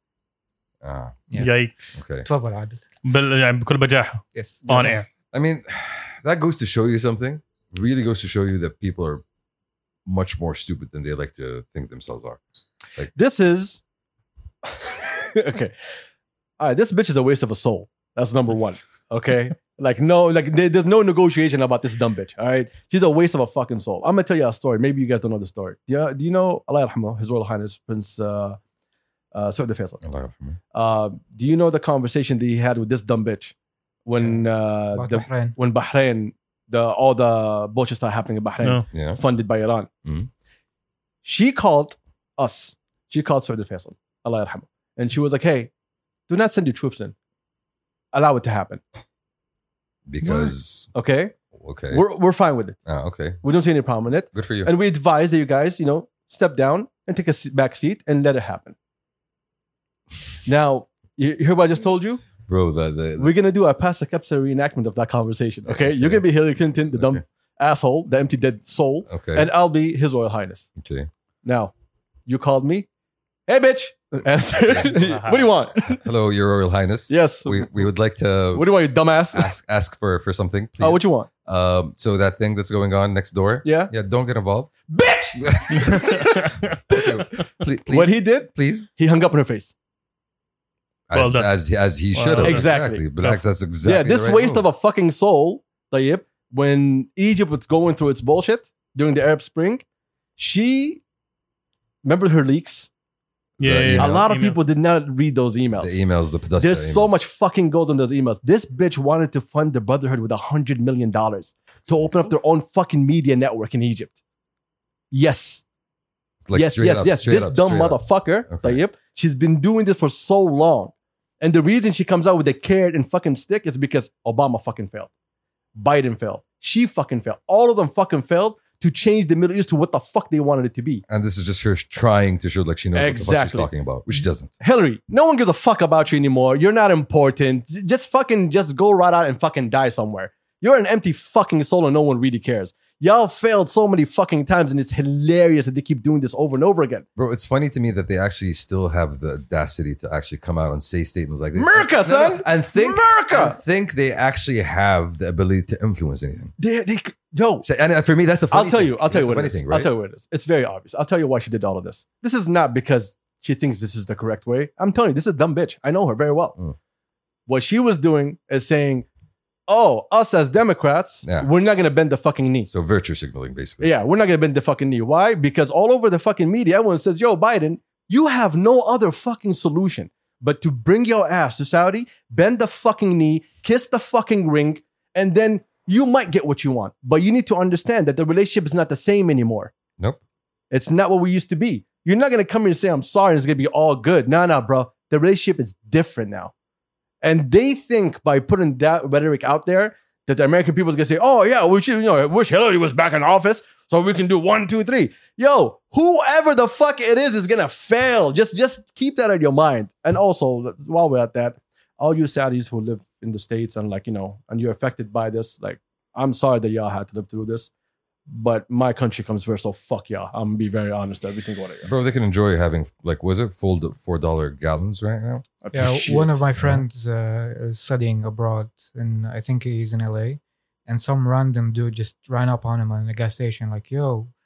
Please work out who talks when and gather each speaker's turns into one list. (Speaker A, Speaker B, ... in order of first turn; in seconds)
Speaker A: 0.8-1.2, 1.9-2.3, 5.3-9.2, 10.1-12.4, 30.0-30.6, 38.9-39.2, 50.1-50.9, 51.5-52.0, 52.9-53.4, 54.3-54.7, 62.5-63.3, 65.7-66.3, 66.9-67.2, 69.1-69.5, 70.8-71.1, 74.7-74.9, 75.8-78.7, 79.3-84.7, 85.4-88.9, 91.1-94.7, 103.6-104.3, 105.8-107.2, 116.4-118.8, 131.1-134.5, 147.2-156.5, 157.6-159.9, 171.2-171.5, 172.7-173.9, 221.8-225.4, 226.6-226.8
Speaker B: 1.3-1.5, 2.2-2.8, 4.3-4.9, 34.9-35.6, 225.7-234.3
Speaker C: 1.4-2.0, 3.0-5.1, 74.8-75.5, 85.9-86.7, 91.1-91.6, 92.1-93.4, 103.6-104.6
Speaker D: 4.7-5.0, 13.1-13.8, 14.6-15.7, 16.6-28.6, 29.3-30.0, 30.7-33.5, 34.0-39.9, 41.2-45.7, 46.3-47.1, 48.1-48.8, 50.9-51.4, 51.9-52.8, 53.4-58.7, 60.4-62.2, 63.2-70.7, 71.4-71.7, 72.2-72.9, 73.5-76.0, 77.1-77.9, 78.5-79.5, 80.8-81.3, 83.6-83.9, 84.9-87.2, 87.9-89.7, 92.4-93.1, 93.8-99.8, 100.4-101.0, 102.0-102.9, 103.9-106.0, 106.6-114.1, 115.1-115.6, 116.5-125.1, 125.7-131.0, 132.9-133.7, 134.6-147.1, 151.5-153.6, 156.6-157.7, 158.5-166.6, 167.5-169.1, 169.7-172.7, 173.8-189.7, 190.7-196.5, 197.2-217.7, 218.3-221.9, 225.6-226.4